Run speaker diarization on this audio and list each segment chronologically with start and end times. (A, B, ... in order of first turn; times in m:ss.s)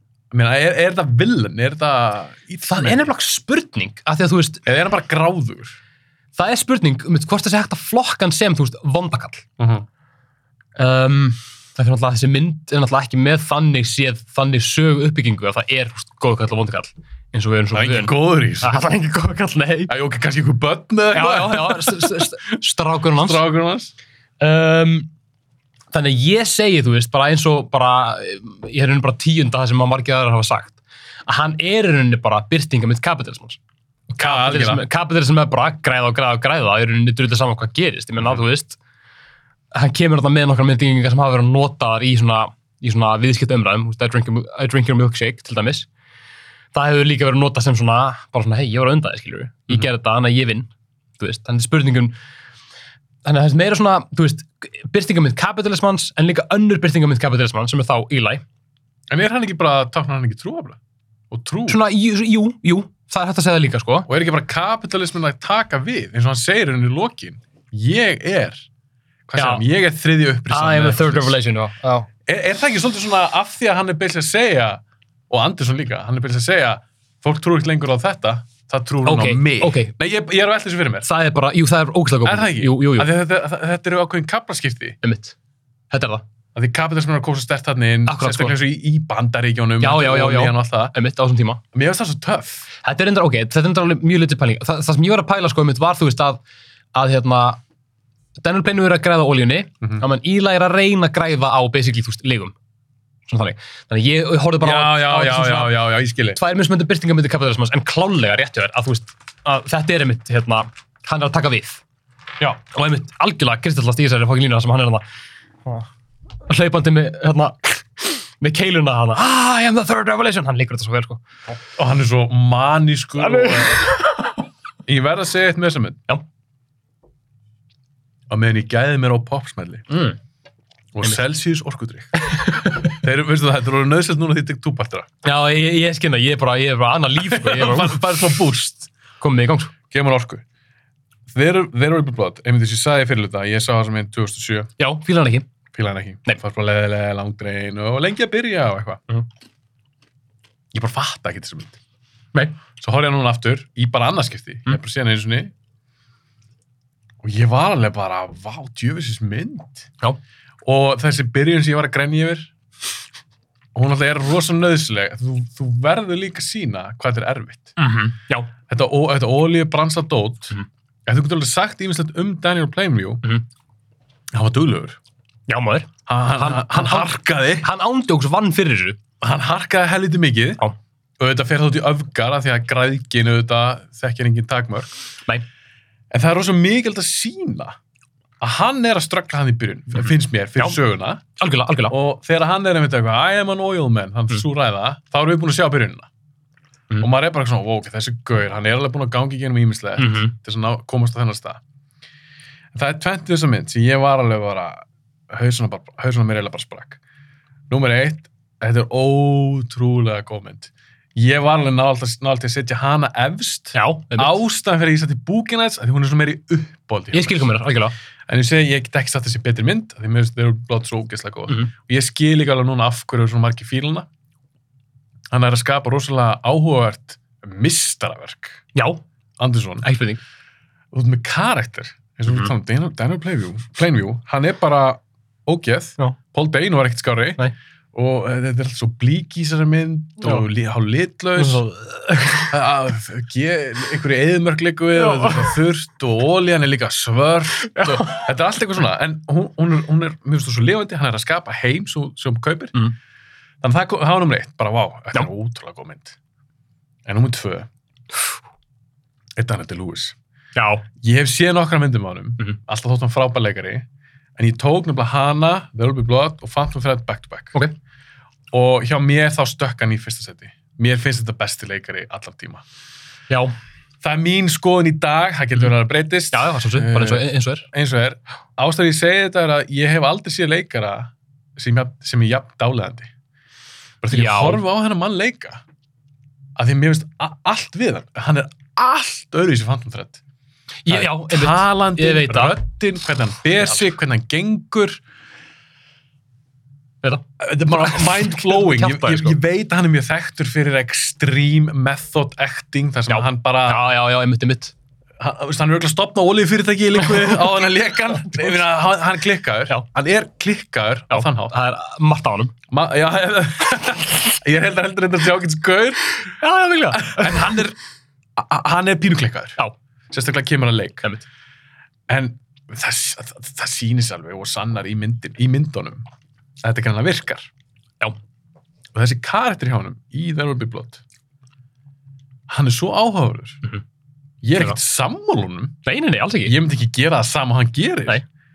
0:00.3-0:03.1 A
0:02.7-0:04.6 B
0:04.6-0:05.8 A
0:06.4-0:09.4 B
0:09.6-0:09.9 A
0:10.8-0:19.9 B
0:17.7-0:18.8 A
0:19.9-0:22.4 A
0:21.1-0:23.4 B
0:23.1-0:23.9 A
0:24.4-0:25.1 B
0:25.9-0:33.6 B
0:34.2-0:34.8 A
0:34.2-0:38.8 B
0:39.7-0:45.9 B
0:46.7-0:52.2 B
0:53.2-0:58.4 B
0:59.1-1:00.8 A
1:01.3-1:01.8 A
1:01.7-1:04.1 B
1:04.1-1:08.7 A
1:09.3-1:11.4 A
1:09.4-1:09.6 B
1:10.5-1:12.1 B
1:12.3-1:21.1 A
1:19.1-1:19.9 B
1:21.0-1:23.1 B
1:22.2-1:25.0 A
1:25.0-1:25.4 B
1:25.9-1:26.2 B
1:26.6-1:30.9 A
1:28.1-1:28.6 B
1:29.8-1:31.6 B
1:31.7-1:32.7 A
1:32.8-1:36.4 B
1:36.9-1:37.6 B
1:38.4-1:42.6 B
1:43.3-1:45.8 B
1:44.6-1:46.4 A
1:46.4-1:51.8 B
1:52.4-1:55.0 B
1:56.5-2:01.3 B
2:01.8-2:03.9 A
2:03.2-2:04.4 B
2:04.9-2:06.1 A
2:08.3-2:09.9 A
2:09.9-2:10.2 B
2:10.9-2:15.1 A
2:12.3-2:12.9 B
2:15.2-2:18.1 B
2:17.2-2:18.9 A
2:19.2-2:19.7 B
2:19.9-2:20.4 A
2:21.3-2:24.7 A
2:24.8-2:25.5 B
2:25.7-2:29.0 A
2:30.7-2:31.8 A
2:32.8-2:35.5 A
2:37.2-2:39.9 A
2:40.6-2:42.5 A
2:43.8-2:47.8 A
2:47.8-2:48.5 B
2:48.7-2:53.3 A
2:54.3-2:55.0 A
2:55.5-2:59.0 B
2:56.1-2:57.7 A
2:59.2-3:00.6 A
3:01.2-3:04.9 A
3:06.1-3:07.8 A
3:08.4-3:11.2 A
3:11.4-3:11.9 B
3:11.9-3:16.1 A
3:17.0-3:21.6 A
3:20.0-3:20.3 B
3:22.7-3:27.0 A
3:27.7-3:37.6 A
3:33.8-3:34.4 B
3:37.1-3:38.0 B
3:38.3-3:44.1 A
3:45.3-3:48.6 A
3:48.7-3:49.0 B
3:49.4-3:49.9 A
3:49.8-3:50.2 B
3:50.9-4:01.6 A
4:01.4-4:02.5 B
4:02.5-4:12.8 A
4:05.0-4:05.5 B
4:07.8-4:08.2 B
4:13.6-4:16.2 A
4:17.1-4:17.7 A
4:19.4-4:20.2 A
4:20.6-4:20.9 B
4:21.0-4:23.9 A
4:24.4-4:27.6 A
4:28.5-4:32.6 A
4:33.3-4:33.6 B
4:34.0-4:43.1 A
4:36.3-4:37.7 B
4:44.0-4:45.6 A
4:44.1-4:44.6 B
4:46.6-4:50.2 A
4:50.8-4:52.6 B
4:50.9-4:55.0 A
4:57.0-4:59.4 B
4:57.4-5:03.9 A
5:03.1-5:04.7 B
5:05.2-5:11.5 A
5:11.1-5:12.5 B
5:12.7-5:16.2 A
5:16.3-5:17.6 B
5:16.9-5:17.8 A
5:18.4-5:21.1 A
5:22.1-5:26.0 A
5:26.6-5:27.5 A
5:29.0-5:31.0 A
5:32.5-5:33.6 A
5:34.4-5:35.8 A
5:35.8-5:36.6 B
5:36.4-5:38.2 A